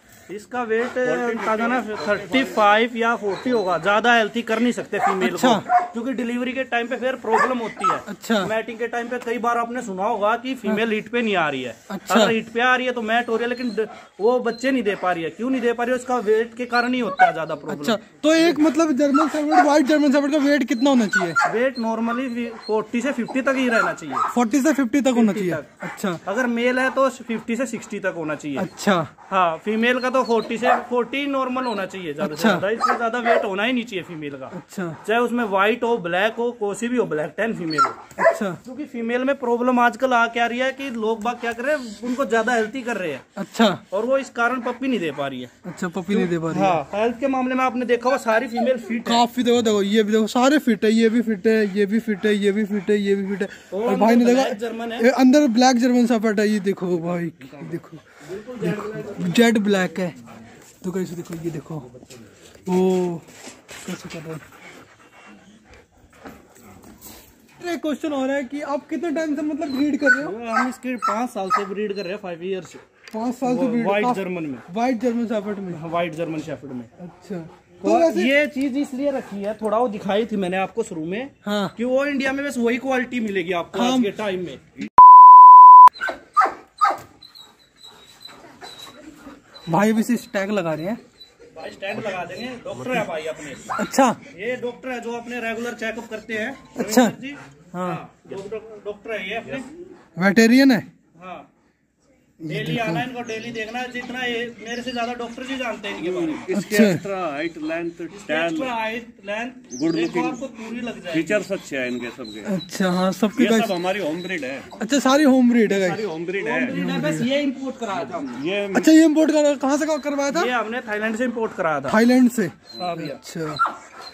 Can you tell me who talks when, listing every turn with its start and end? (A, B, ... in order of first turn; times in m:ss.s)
0:00.3-0:18.0 A
0:01.1-0:02.6 B
0:05.2-0:05.6 C
0:08.1-0:08.5 C
0:11.9-0:12.3 C
0:17.7-0:21.4 C
0:21.4-0:24.3 A
0:24.3-0:26.2 C
0:25.1-0:25.7 A
0:26.2-0:28.7 A
0:28.6-0:29.1 C
0:29.3-0:38.0 A
0:32.2-0:32.6 C
0:34.5-0:35.0 C
0:38.2-0:38.6 C
0:38.6-0:43.2 A
0:43.4-0:43.8 C
0:43.9-0:45.5 A
0:45.6-0:46.8 C
0:46.1-0:49.2 A
0:49.0-0:58.0 C
0:53.7-0:55.1 A
0:58.3-0:59.3 A
0:58.6-1:00.1 C
1:00.8-1:01.9 C
1:02.7-1:03.2 C
1:03.8-1:04.4 C
1:07.6-1:10.3 C
1:10.2-1:12.8 A
1:13.1-1:15.8 C
1:13.4-1:14.6 A
1:15.7-1:16.9 A
1:17.0-1:18.3 C
1:17.8-1:24.6 A
1:21.4-1:21.7 C
1:23.7-1:24.1 C
1:29.7-1:31.0 C
1:31.5-1:33.7 A
1:33.8-1:34.2 C
1:34.3-1:39.7 A
1:36.7-1:37.2 C
1:37.7-1:38.0 C
1:40.2-1:40.9 C
1:41.2-1:41.5 A
1:42.4-1:46.5 A
1:42.4-1:43.0 C
1:46.0-1:48.7 B
1:46.5-1:47.1 C
1:48.1-1:51.4 A
1:49.7-1:50.4 B
1:51.1-1:52.5 B
1:52.4-1:53.8 C
1:53.3-1:54.8 B
1:54.7-1:56.1 C
1:55.7-1:56.8 B
1:56.3-1:58.4 A
1:56.7-1:57.3 C
1:58.3-1:58.9 B
1:58.7-2:00.5 C
2:00.3-2:02.0 A
2:01.9-2:03.6 C
2:02.8-2:03.2 A